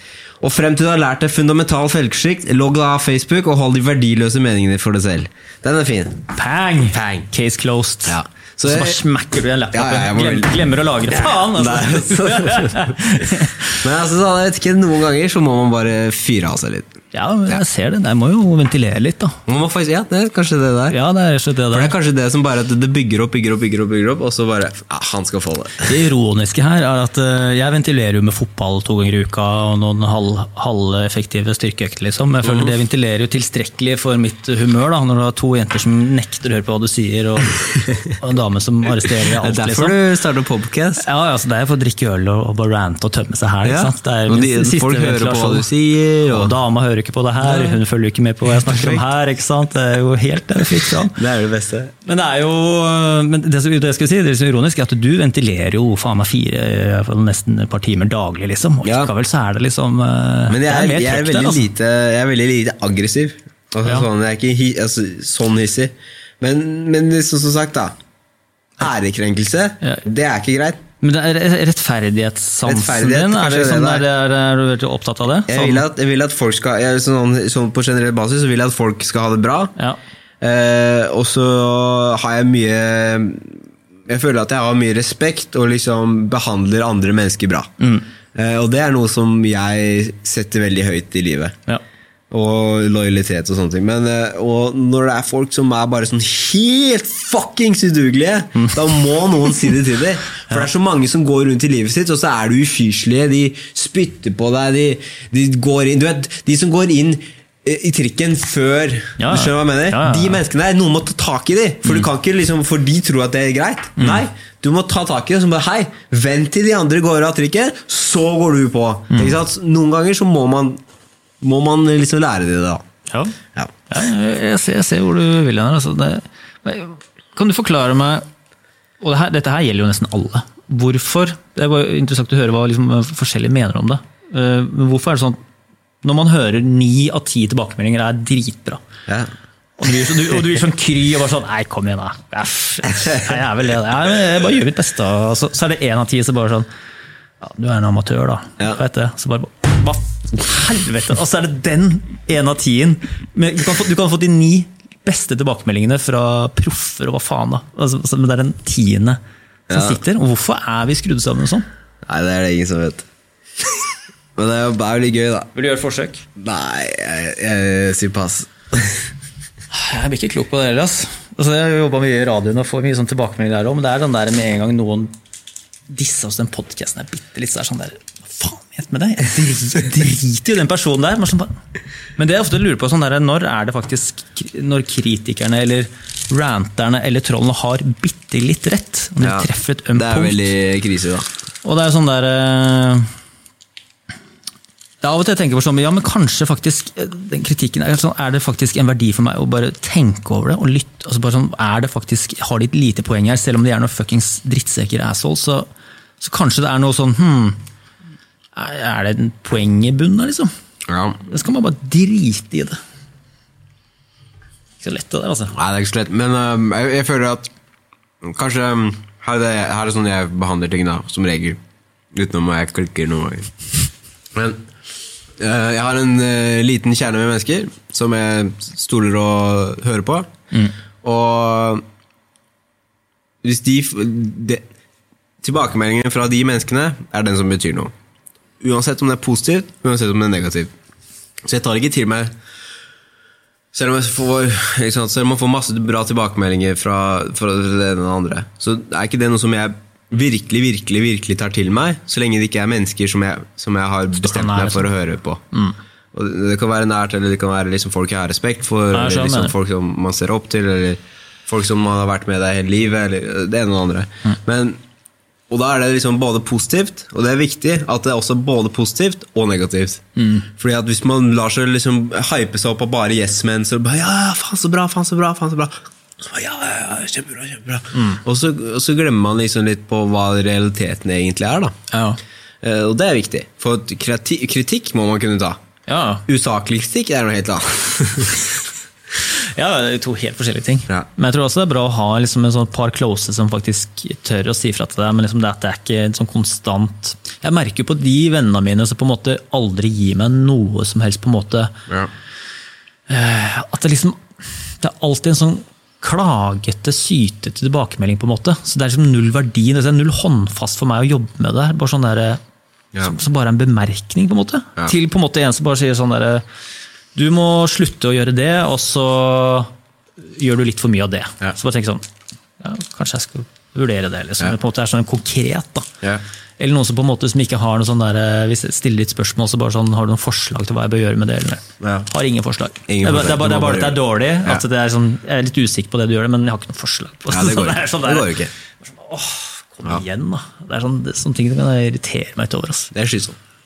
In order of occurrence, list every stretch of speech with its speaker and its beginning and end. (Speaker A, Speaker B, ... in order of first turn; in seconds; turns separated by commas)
Speaker A: 0.4-6.2, Speaker B: 6.3-13.8, Speaker A: 6.9-7.3, Speaker A: 8.1-9.0, Speaker A: 9.7-16.9, Speaker B: 17.1-19.4, Speaker A: 19.5-21.0, Speaker B: 20.9-21.9, Speaker A: 21.7-26.0, Speaker B: 25.8-40.0, Speaker A: 32.4-32.8, Speaker A: 39.4-41.0, Speaker B: 41.0-51.2, Speaker A: 43.6-46.6, Speaker A: 47.4-47.8, Speaker A: 48.5-49.0, Speaker A: 51.0-51.9, Speaker B: 52.0-61.7, Speaker A: 58.8-59.1, Speaker A: 60.5-67.9, Speaker A: 68.8-70.8, Speaker B: 71.0-75.8, Speaker A: 72.7-74.1, Speaker A: 75.5-79.7, Speaker A: 80.4-83.6, Speaker A: 84.1-87.7, Speaker B: 87.8-88.1, Speaker A: 88.3-91.5, Speaker A: 92.3-120.8, Speaker B: 109.2-110.4, Speaker B: 114.0-114.2, Speaker A: 121.4-122.8, Speaker B: 123.1-123.3, Speaker B: 123.9-128.2, Speaker B: 129.0-135.4, Speaker B: 136.0-138.8, Speaker B: 139.8-146.7, Speaker B: 147.4-159.2, Speaker A: 159.7-160.0, Speaker B: 159.7-161.7, Speaker A: 162.1-163.1, Speaker A: 164.4-165.5, Speaker B: 165.6-166.2, Speaker A: 166.4-168.9, Speaker B: 169.7-175.1, Speaker B: 175.9-181.6, Speaker B: 182.2-190.5, Speaker A: 189.2-191.3, Speaker B: 191.6-193.1, Speaker B: 195.0-205.7, Speaker B: 206.2-207.6, Speaker B: 208.6-210.5, Speaker A: 210.9-211.2, Speaker B: 211.2-212.8, Speaker B: 214.8-215.5, Speaker A: 215.5-217.5, Speaker A: 218.2-221.6, Speaker A: 222.1-223.7, Speaker A: 224.3-224.6, Speaker A: 225.4-230.3, Speaker A: 231.0-231.8, Speaker A: 233.4-234.6, Speaker A: 235.4-237.9, Speaker A: 238.6-240.7, Speaker A: 241.5-242.3, Speaker A: 243.7-255.4, Speaker B: 254.2-254.9, Speaker A: 256.1-264.8, Speaker B: 258.9-259.6, Speaker A: 265.5-281.7, Speaker B: 270.2-270.4, Speaker B: 277.9-278.2, Speaker B: 281.9-282.2, Speaker A: 282.6-285.6, Speaker B: 285.9-286.2, Speaker A: 286.3-288.5, Speaker B: 289.6-301.8, Speaker B: 303.1-304.2, Speaker B: 304.8-312.4, Speaker B: 313.0-316.4, Speaker B: 317.1-322.1, Speaker B: 322.6-325.9, Speaker B: 326.6-342.9, Speaker A: 331.8-332.1, Speaker A: 332.9-334.6, Speaker A: 337.3-338.5, Speaker A: 342.9-343.4